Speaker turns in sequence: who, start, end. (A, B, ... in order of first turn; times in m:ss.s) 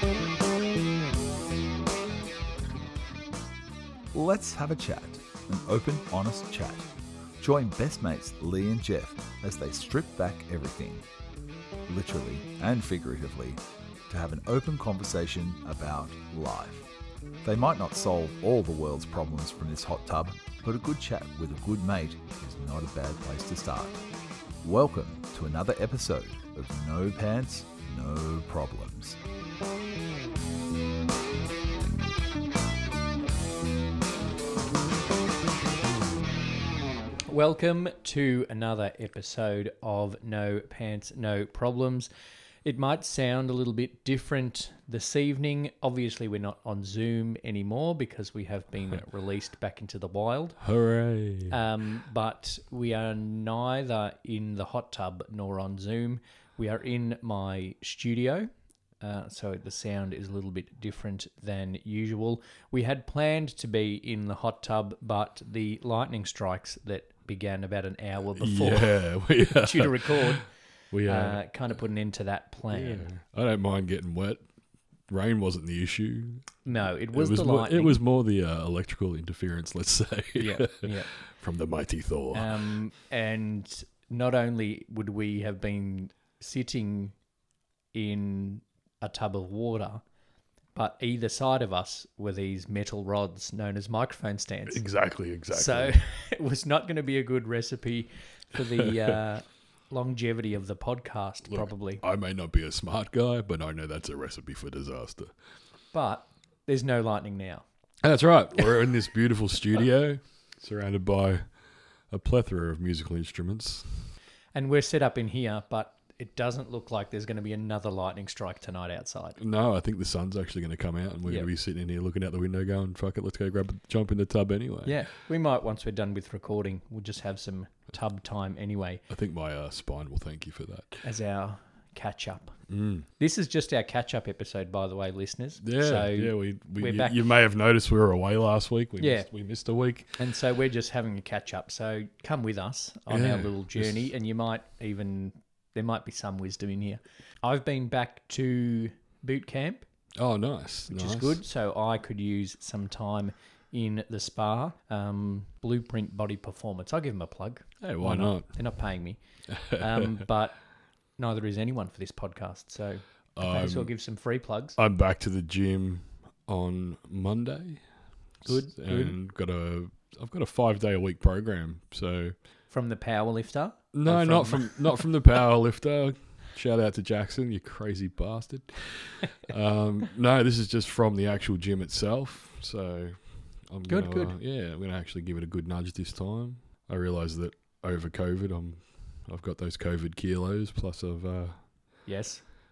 0:04.1-0:11.0 A
0:11.9-0:16.9 A
0:17.4-0:24.0 A
0:24.6-0:29.2 A
0:37.3-0:42.1 B
0:42.6-0:50.6 B
0:50.6-0:51.6 C
0:51.5-1:10.5 B
1:08.4-1:11.4 C
1:11.1-1:13.1 B
1:12.7-1:14.4 C
1:15.1-1:22.8 C
1:16.6-1:18.0 B
1:20.4-1:21.1 B
1:22.3-1:27.2 B
1:27.9-1:30.0 B
1:30.8-1:34.8 B
1:34.7-1:36.0 C
1:35.5-1:42.0 B
1:41.5-1:45.3 C
1:45.9-1:47.6 B
1:48.0-1:51.4 C
1:52.1-1:54.1 C
1:54.5-1:59.4 B
1:59.4-2:05.0 C
2:04.8-2:09.0 B
2:09.1-2:11.0 C
2:11.0-2:12.6 B
2:12.7-2:13.1 C
2:13.2-2:17.2 B
2:15.6-2:20.2 C
2:19.0-2:19.3 B
2:20.2-2:29.8 B
2:23.1-2:24.1 C
2:30.2-2:31.4 C
2:30.9-2:39.2 B
2:37.8-2:38.6 C
2:39.5-2:40.2 C
2:39.7-2:40.6 B
2:41.2-2:44.8 B
2:43.4-2:43.9 C
2:44.8-2:47.8 C
2:48.4-2:52.3 C
2:48.4-2:49.2 B
2:52.7-2:55.0 B
2:53.9-3:11.6 C
3:03.9-3:04.4 B
3:12.1-3:12.4 B